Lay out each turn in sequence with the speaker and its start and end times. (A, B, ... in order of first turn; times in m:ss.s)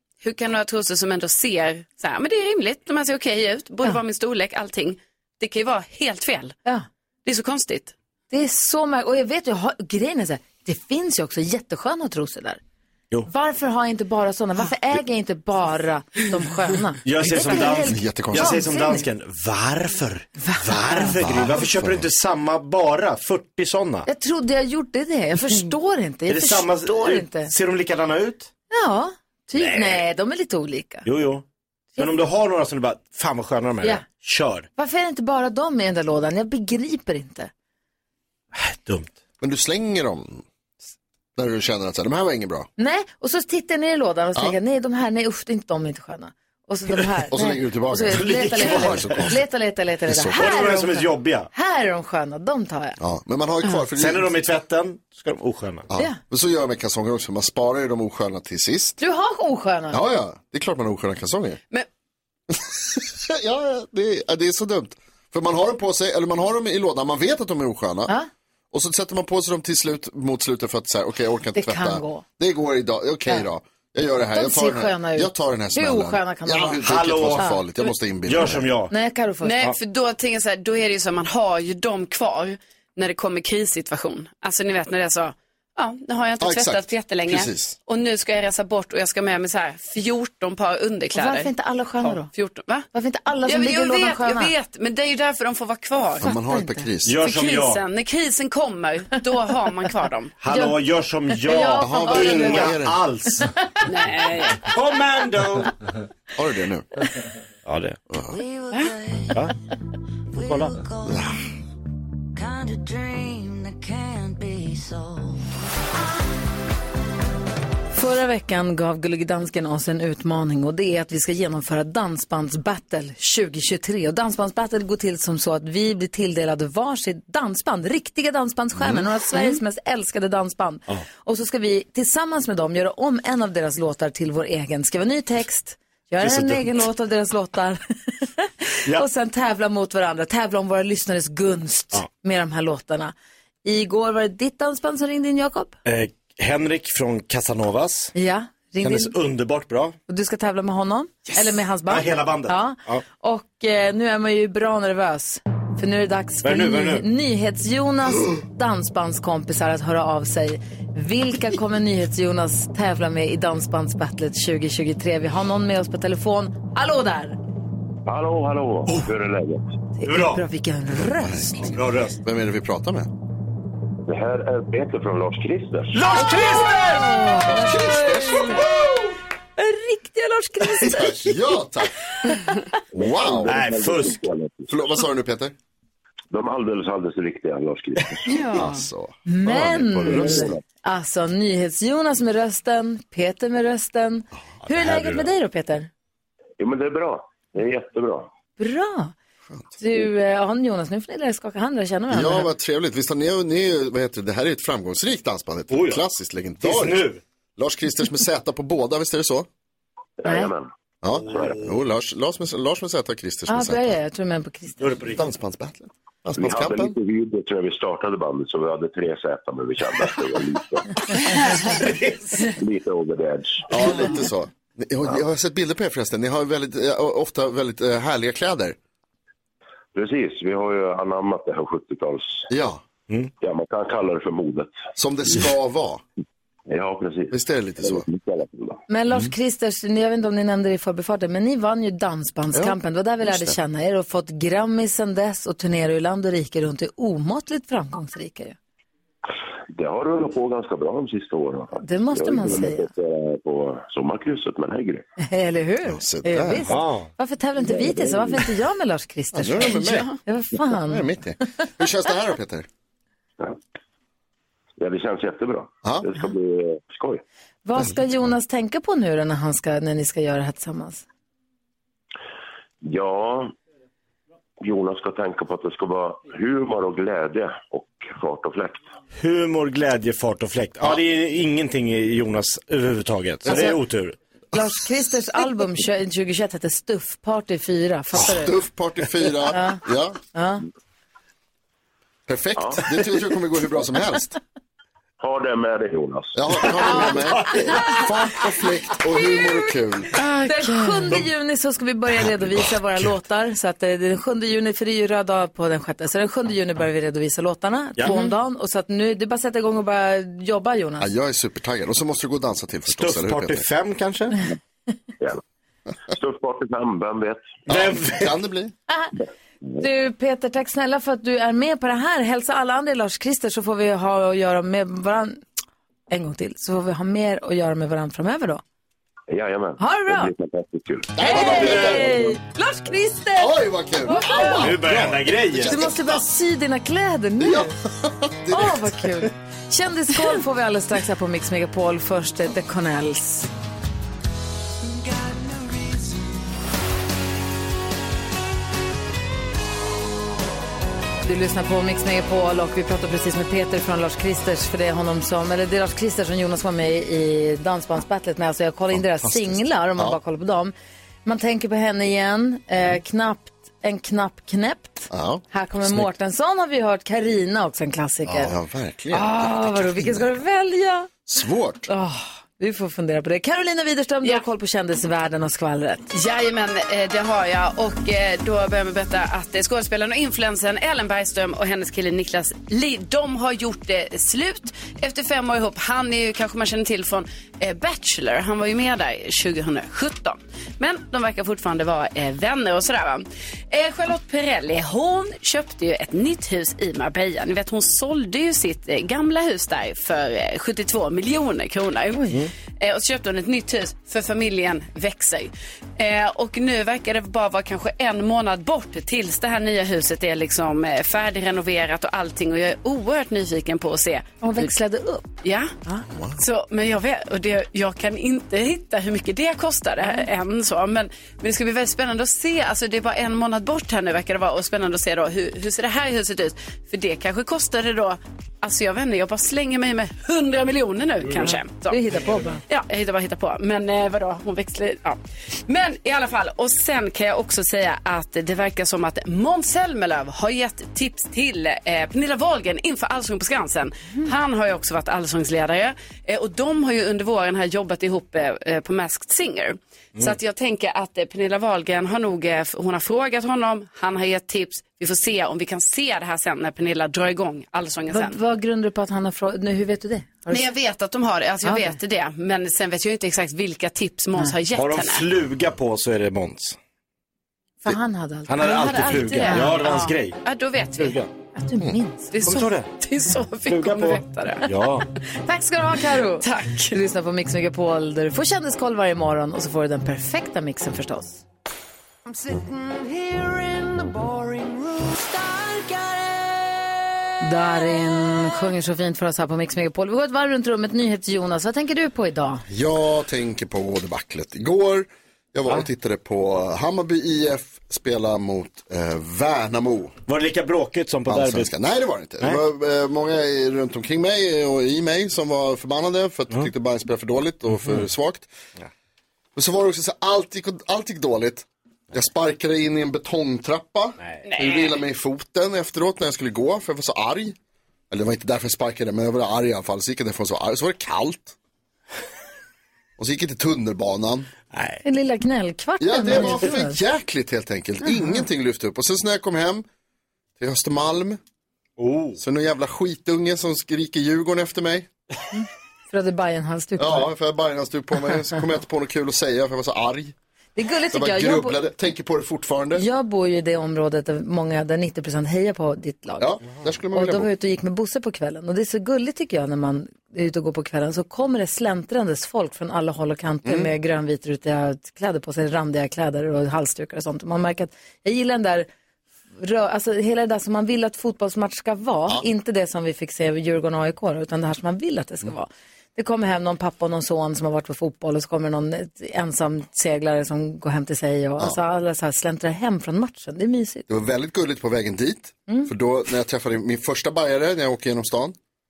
0:00.2-0:06.6 A
0:07.2-0:07.9 A
0:08.3-0:12.6 B
0:13.3-0:19.0 B
0:17.0-0:24.1 C
0:17.8-0:18.6 D
0:20.4-0:21.4 B
0:21.2-0:22.1 D
0:24.0-0:27.5 B
0:26.3-0:28.5 C
0:28.7-0:31.1 B
0:29.5-0:30.0 C
0:31.0-0:31.4 C
0:32.0-0:34.7 C
0:34.8-0:37.5 B
0:38.5-0:39.1 C
0:39.4-0:40.4 D
0:41.4-0:42.7 D
0:42.8-0:53.0 B
0:47.3-0:49.4 D
0:48.1-0:49.3 C
0:50.1-0:50.5 D
0:50.3-0:51.5 C
0:53.0-0:54.3 D
0:53.9-0:55.9 C
0:55.9-0:59.0 D
0:59.0-1:00.0 B
0:59.9-1:01.6 D
1:02.5-1:08.1 D
1:08.7-1:18.7 D
1:11.5-1:12.2 B
1:14.3-1:17.6 B
1:16.8-1:17.6 C
1:18.2-1:18.9 C
1:18.9-1:19.6 B
1:19.4-1:31.5 A
1:26.4-1:27.8 D
1:31.1-1:32.3 B
1:32.1-1:32.9 A
1:32.9-1:34.5 B
1:33.4-1:36.2 A
1:36.2-1:37.2 D
1:36.2-1:36.9 B
1:37.0-1:37.8 C
1:37.2-1:40.3 A
1:40.4-1:43.5 C
1:40.5-1:40.8 B
1:41.4-1:42.7 B
1:41.8-1:43.0 D
1:43.8-1:44.7 A
1:44.6-1:45.7 C
1:46.3-1:46.9 D
1:47.6-1:48.0 C
1:48.1-1:48.4 D
1:50.4-1:50.8 C
1:51.0-1:51.4 D
1:52.6-1:54.8 E
1:57.9-2:23.1 B
2:16.2-2:16.8 C
2:23.6-2:25.8 B
2:25.8-2:28.1 C
2:28.1-2:29.1 B
2:28.8-2:29.9 C
2:30.1-2:47.4 B
2:31.8-2:33.0 C
2:36.4-2:37.1 C
2:48.0-2:49.6 F
2:50.0-2:51.8 B
2:50.0-2:50.4 C
2:51.0-2:53.1 D
2:51.7-2:52.2 C
2:54.0-2:56.0 F
2:55.9-2:57.2 C
2:56.1-2:58.7 B
2:57.3-2:58.7 D
2:59.6-3:01.2 B
3:00.6-3:01.3 C
3:01.0-3:01.9 D
3:02.2-3:02.6 B
3:02.9-3:03.6 D
3:02.9-3:04.8 F
3:03.4-3:04.2 C
3:04.7-3:05.5 D
3:06.3-3:08.3 F
3:08.3-3:15.9 B
3:08.5-3:10.6 D
3:10.0-3:10.6 F
3:14.8-3:15.2 C
3:16.6-3:18.3 F
3:18.6-3:19.1 B
3:19.8-3:22.5 B
3:22.1-3:27.0 D
3:25.7-3:26.0 C
3:26.6-3:27.2 C
3:27.6-3:29.5 D
3:30.2-3:30.7 F
3:30.2-3:30.5 B
3:31.0-3:33.9 D
3:31.1-3:31.7 C
3:31.3-3:31.6 F
3:33.5-3:35.0 B
3:34.8-3:35.2 C
3:35.1-3:37.0 D
3:36.4-3:40.9 F
3:41.4-3:42.5 C
3:42.4-3:43.7 F
3:43.7-3:48.8 D
3:49.9-3:52.5 F
3:52.5-3:52.8 D
3:53.4-3:54.8 F
3:55.0-3:56.0 D
3:56.7-3:58.8 F
3:57.3-3:58.0 D
3:58.9-4:08.6 B
4:02.5-4:03.6 D
4:09.7-4:15.0 F
4:11.8-4:12.9 B
4:15.2-4:21.0 B
4:15.8-4:16.8 D
4:16.7-4:17.1 C
4:17.6-4:18.4 F
4:19.3-4:22.7 D
4:19.8-4:20.1 A
4:24.8-4:27.2 F
4:27.6-4:31.0 B
4:32.8-4:33.5 F
4:34.6-4:38.9 F
4:39.2-4:44.2 C
4:43.5-4:43.8 B
4:44.5-4:48.5 B
4:48.1-4:50.2 D
4:49.5-4:49.8 B
4:50.3-4:50.6 B
4:52.3-4:54.4 D
4:52.6-4:52.8 F
4:55.2-4:56.7 F
4:56.3-5:00.2 D
5:00.2-5:01.0 A
5:00.4-5:11.1 B
5:11.0-5:13.6 D
5:12.9-5:14.4 C
5:16.1-5:17.6 F
5:17.7-5:18.4 C
5:17.7-5:18.7 D
5:19.8-5:25.4 B
5:26.1-5:28.6 B
5:29.3-5:31.4 F
5:29.8-5:30.3 B
5:31.2-5:32.2 D
5:31.2-5:34.7 B
5:31.4-5:32.0 C
5:33.4-5:36.2 D
5:34.6-5:35.8 C
5:35.6-5:37.7 B
5:37.4-5:39.2 D
5:38.5-5:43.5 B
5:51.2-6:00.7 B
5:58.9-6:00.2 D
6:01.2-6:08.5 B
6:05.1-6:06.1 D
6:08.2-6:10.2 D
6:09.1-6:11.1 B
6:11.2-6:11.9 D
6:11.9-6:16.1 B
6:16.1-6:54.7 A
6:54.4-6:55.3 B
6:55.4-6:55.7 A
6:56.1-6:56.4 D
6:56.4-7:12.0 A
7:11.2-7:11.6 C
7:11.9-7:12.6 B
7:12.2-7:12.5 C
7:12.6-7:38.4 A
7:38.1-7:40.7 B
7:40.5-7:45.2 A
7:41.6-7:42.0 B
7:44.7-7:46.8 C
7:47.8-7:50.0 B
7:48.5-7:50.4 C
7:48.6-7:51.2 A
7:51.0-7:51.3 C
7:51.5-7:52.4 B
7:52.3-7:54.7 A
7:52.4-7:52.9 C
7:53.7-7:55.1 C
7:55.4-8:01.4 B
7:56.4-7:57.0 A
8:07.4-8:12.6 B
8:12.7-8:20.2 D
8:20.3-8:21.7 C
8:21.3-8:28.5 D
8:29.6-8:37.6 D
8:34.4-8:35.0 A
8:38.1-8:41.6 D
8:43.2-8:44.5 D
8:44.7-8:45.0 C
8:45.0-8:47.0 B
8:46.0-8:49.8 D
8:50.6-8:51.4 D
8:52.0-8:52.4 C
8:52.4-8:55.1 D
8:55.5-8:57.3 B
8:57.0-9:00.3 D
9:00.8-9:01.8 B
9:01.1-9:03.0 D
9:03.0-9:06.5 B
9:06.4-9:07.5 D
9:07.1-9:18.9 B
9:13.6-9:13.9 D
9:19.6-9:34.1 B
9:34.1-9:38.5 D